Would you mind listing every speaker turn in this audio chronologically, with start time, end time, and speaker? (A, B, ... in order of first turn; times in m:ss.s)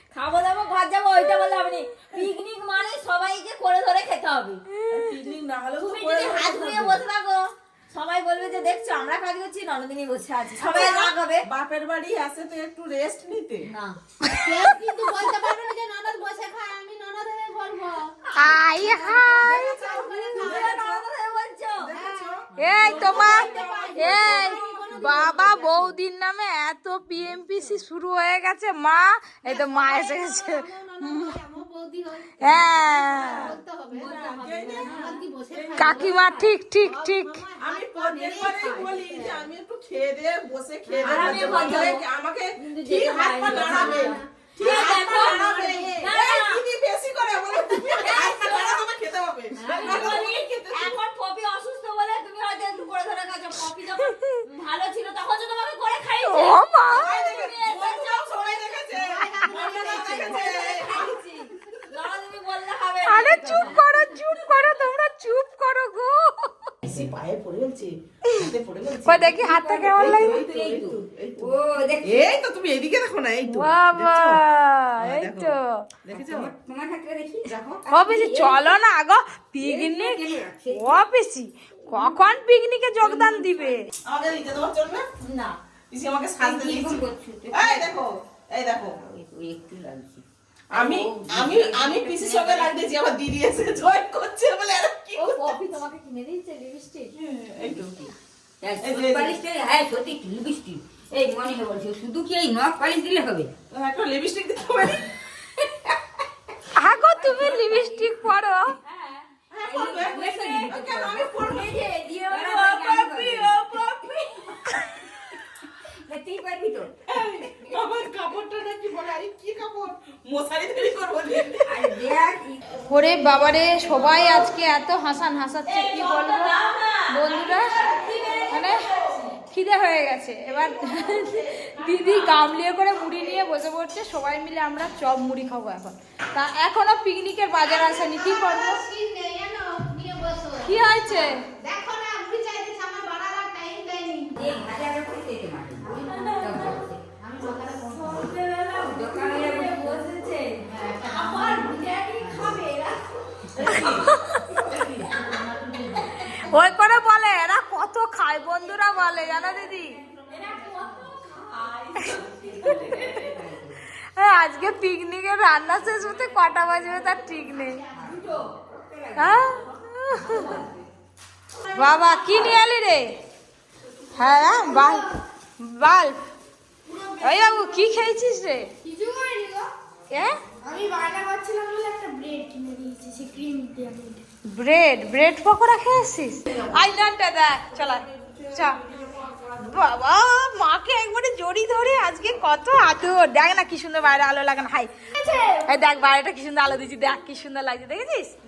0:00.1-0:04.6 A
0:04.8-0:05.0 B
0:04.9-0:07.0 C
0:05.8-0:11.4 A
0:10.5-0:13.7 C
0:13.7-0:14.0 A
0:14.2-0:14.8 B
0:14.3-0:18.2 D
0:18.3-0:19.8 B
0:18.4-0:18.8 A
0:18.8-0:20.7 D
0:19.3-0:21.0 C
0:20.4-0:21.9 A
0:21.8-0:25.2 C
0:21.9-0:22.3 D
0:22.6-0:31.3 B
0:22.7-0:24.1 A
0:22.9-0:26.0 D
0:29.4-0:34.3 D
0:32.4-0:33.6 B
0:33.3-0:36.2 C
0:33.9-0:35.2 A
0:34.9-0:39.4 D
0:35.7-0:37.4 B
0:37.6-0:51.0 C
0:40.9-0:41.7 D
0:41.0-0:42.0 A
0:42.6-0:46.6 A
0:44.0-0:46.1 D
0:47.7-0:48.8 A
0:49.6-1:04.5 A
0:54.1-0:54.4 B
0:56.2-0:57.2 B
0:56.8-1:01.5 C
0:58.9-1:00.5 D
1:03.0-1:06.7 B
1:06.8-1:14.4 C
1:09.0-1:10.4 B
1:10.0-1:12.2 A
1:13.5-1:15.6 B
1:15.0-1:16.5 C
1:16.1-1:18.8 A
1:17.9-1:23.8 B
1:19.6-1:21.1 A
1:21.9-1:22.2 A
1:23.0-1:23.8 A
1:24.0-1:25.0 C
1:25.2-1:25.6 A
1:25.9-1:28.9 C
1:26.4-1:28.0 A
1:29.0-1:32.8 A
1:30.7-1:35.8 C
1:35.2-1:43.5 A
1:37.1-1:38.1 C
1:38.8-1:39.4 C
1:43.7-1:45.1 C
1:46.7-1:48.7 B
1:47.0-1:48.2 A
1:48.9-1:53.9 A
1:49.5-1:54.4 C
1:56.0-1:56.9 A
1:57.1-2:01.9 C
2:01.6-2:02.6 A
2:02.9-2:07.8 B
2:03.8-2:04.5 A
2:05.6-2:09.4 A
2:07.8-2:08.3 C
2:08.5-2:08.8 B
2:09.5-2:18.8 B
2:10.6-2:12.4 A
2:17.6-2:24.5 D
2:20.6-2:21.4 B
2:24.4-2:27.0 A
2:25.8-2:28.3 D
2:27.9-2:33.0 A
2:28.9-2:29.7 D
2:29.6-2:30.0 B
2:30.6-2:32.6 D
2:33.6-2:34.0 C
2:33.6-2:34.1 A
2:33.6-2:34.4 B
2:33.7-2:34.1 D
2:34.6-2:35.0 A
2:34.7-2:36.2 D
2:36.2-2:40.0 B
2:38.5-2:43.8 A
2:40.3-2:40.9 D
2:42.0-2:42.8 B
2:44.2-2:47.8 B
2:45.8-2:50.8 A
2:49.2-2:50.5 B
2:51.7-2:53.0 B
2:52.0-2:52.5 A
2:54.2-2:56.2 B
2:54.2-2:55.1 D
2:56.8-2:58.0 D
2:57.2-2:58.7 B
2:58.8-2:59.7 D
3:00.1-3:03.8 B
3:00.9-3:04.2 D
3:04.5-3:08.8 B
3:09.0-3:09.3 A
3:09.6-3:14.9 B
3:15.2-3:15.5 A
3:15.5-3:18.3 B